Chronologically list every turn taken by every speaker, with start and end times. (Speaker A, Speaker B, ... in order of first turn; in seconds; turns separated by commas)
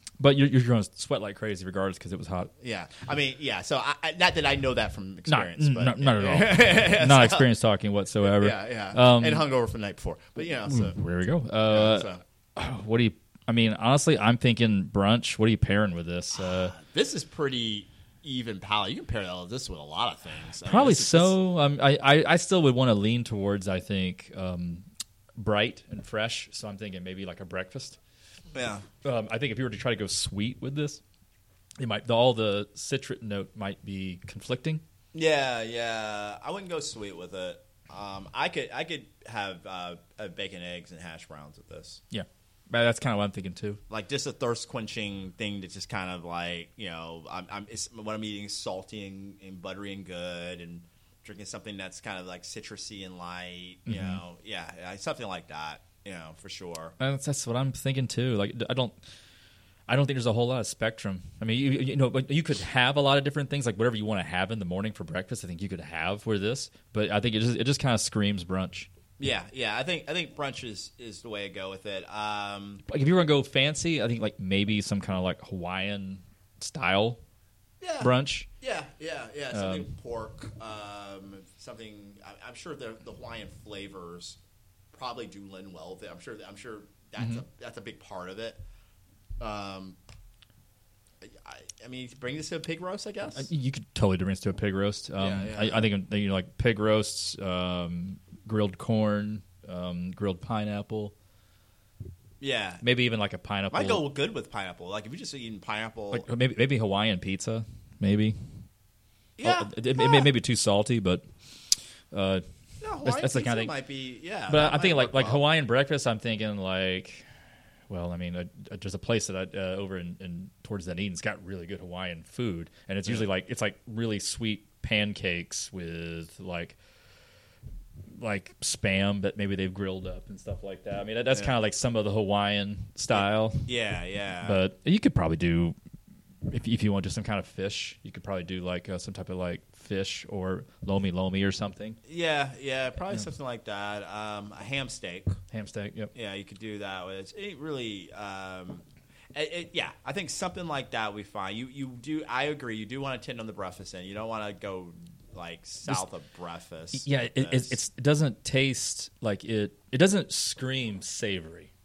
Speaker A: 0.2-2.5, Speaker B: 2.6-7.5, Speaker A: 5.3-9.4, Speaker B: 8.2-11.0, Speaker A: 10.6-16.7, Speaker B: 11.7-12.2, Speaker B: 16.4-21.4, Speaker A: 20.6-24.8, Speaker A: 25.4-28.0, Speaker B: 28.5-28.9, Speaker A: 29.0-31.0, Speaker A: 31.8-34.8, Speaker B: 35.1-42.0, Speaker A: 42.1-43.8, Speaker B: 43.9-56.9, Speaker A: 53.9-54.2, Speaker A: 57.0-59.0, Speaker A: 59.9-68.9, Speaker B: 69.2-72.8, Speaker A: 72.9-77.2, Speaker B: 77.8-84.4, Speaker A: 78.0-78.5, Speaker A: 79.5-79.9, Speaker B: 84.9-88.6, Speaker A: 87.2-87.4, Speaker B: 89.4-90.0, Speaker B: 91.2-93.5, Speaker A: 93.3-101.1, Speaker B: 95.2-95.9, Speaker B: 102.4-102.8, Speaker A: 102.8-104.1, Speaker B: 103.7-106.2, Speaker A: 106.1-108.3, Speaker B: 109.4-110.3, Speaker A: 109.4-111.2, Speaker A: 112.1-112.4, Speaker B: 112.8-115.5, Speaker A: 113.0-113.7, Speaker A: 114.5-117.2, Speaker A: 117.9-126.8, Speaker A: 128.2-133.7, Speaker B: 133.1-134.6, Speaker A: 134.4-135.7, Speaker A: 136.5-142.0, Speaker B: 142.1-145.3, Speaker A: 145.5-146.1, Speaker B: 146.1-157.8, Speaker A: 156.9-161.7